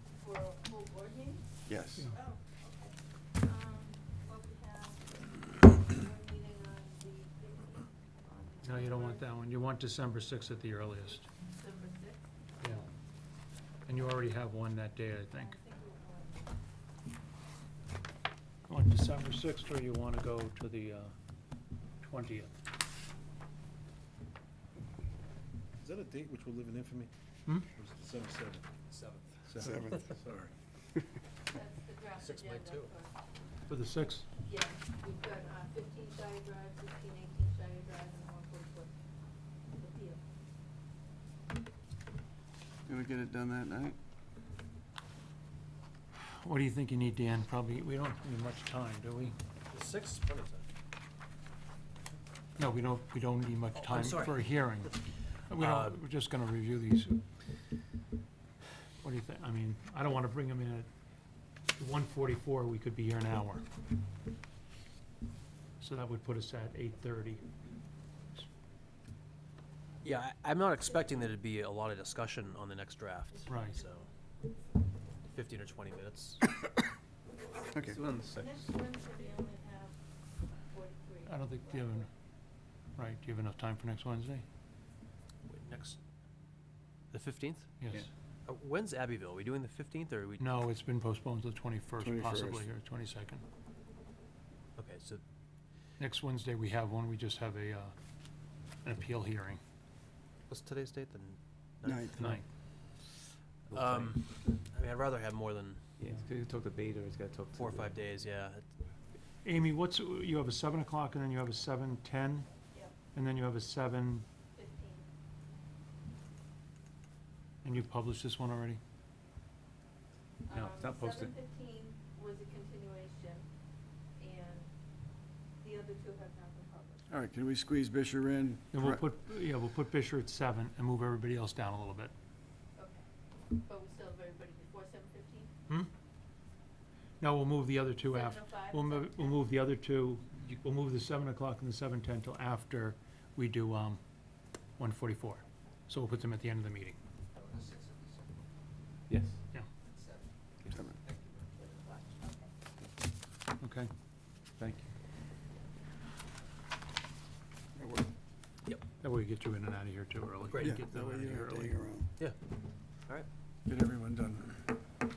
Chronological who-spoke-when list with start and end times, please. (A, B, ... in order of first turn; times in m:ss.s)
0:00.1-0:01.4 A
0:01.7-0:02.0 B
0:02.1-0:09.3 A
0:08.6-0:11.3 C
0:11.5-0:12.2 A
0:12.6-0:12.9 C
0:13.9-0:15.6 C
0:15.3-0:16.6 A
0:18.7-0:21.1 C
0:22.0-0:22.5 C
0:25.8-0:27.1 D
0:27.7-0:28.7 D
0:28.9-0:29.4 E
0:29.5-0:30.5 D
0:29.6-0:30.1 B
0:31.5-0:33.2 A
0:32.2-0:32.9 E
0:33.7-0:34.3 C
0:34.4-0:38.9 A
0:39.7-0:40.2 A
0:42.9-0:44.0 B
0:46.2-0:49.4 C
0:49.7-0:50.6 E
0:52.6-0:57.2 C
0:53.8-0:54.5 E
0:55.6-0:56.0 E
0:59.0-1:00.9 C
1:01.8-1:03.6 C
1:05.8-1:07.5 C
1:10.0-1:14.1 E
1:13.5-1:14.1 A
1:13.5-1:13.8 C
1:15.3-1:16.4 E
1:17.7-1:18.0 B
1:17.9-1:20.0 A
1:18.2-1:18.5 F
1:20.7-1:22.1 A
1:21.3-1:22.1 C
1:23.0-1:24.4 C
1:25.5-1:26.0 E
1:27.1-1:27.8 E
1:27.8-1:28.1 C
1:28.5-1:30.6 E
1:30.4-1:33.4 C
1:32.0-1:32.7 B
1:34.8-1:35.2 E
1:36.0-1:38.0 C
1:38.8-1:39.6 C
1:40.5-1:42.4 E
1:41.8-1:42.3 B
1:42.2-1:42.4 C
1:43.7-1:45.9 E
1:46.0-1:47.9 F
1:47.5-1:48.6 E
1:49.4-1:52.5 C
1:53.1-1:54.2 C
1:54.5-1:55.1 A
1:57.6-1:58.8 C
2:00.5-2:03.5 A
2:00.5-2:00.8 C
2:04.2-2:04.7 A
2:05.6-2:07.0 A
2:07.1-2:09.0 B
2:08.7-2:12.1 C
2:12.8-2:15.5 A
2:17.2-2:24.0 C
2:18.1-2:19.4 A
2:24.8-2:27.0 C
2:27.6-2:27.9 E
2:31.6-2:32.5 A
2:33.6-2:33.9 C
2:37.8-2:38.1 B
2:39.0-2:41.8 C
2:40.5-2:40.8 E
2:40.6-2:42.1 B
2:43.7-2:44.6 B